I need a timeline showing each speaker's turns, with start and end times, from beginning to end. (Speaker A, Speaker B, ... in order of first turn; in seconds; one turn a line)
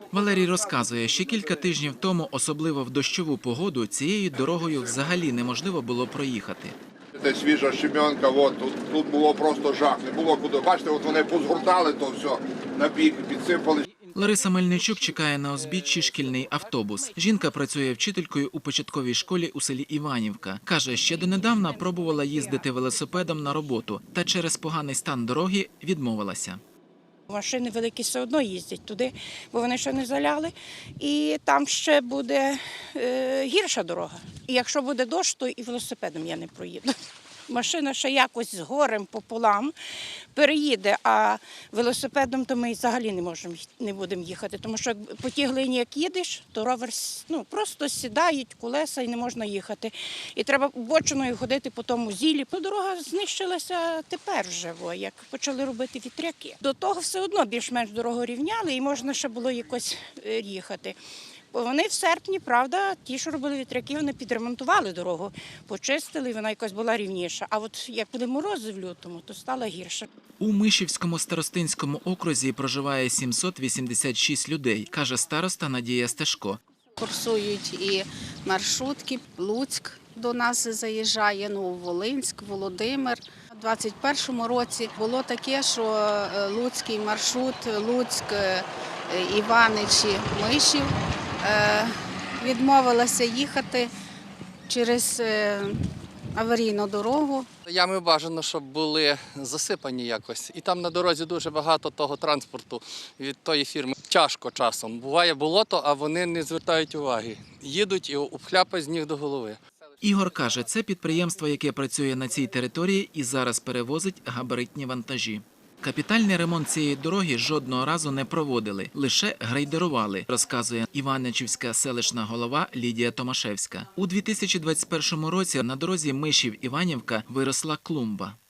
Speaker A: 0.1-6.8
Speaker B: 4.5-4.9
Speaker B: 7.2-13.9
Speaker A: 14.1-26.6
Speaker C: 21.1-22.7
Speaker C: 27.3-37.0
Speaker C: 37.5-39.8
Speaker C: 40.3-61.0
Speaker C: 61.5-70.1
Speaker A: 70.4-76.6
Speaker D: 77.0-93.9
Speaker D: 94.7-95.8
Speaker D: 96.3-97.5
Speaker E: 97.7-109.5
Speaker A: 110.0-128.4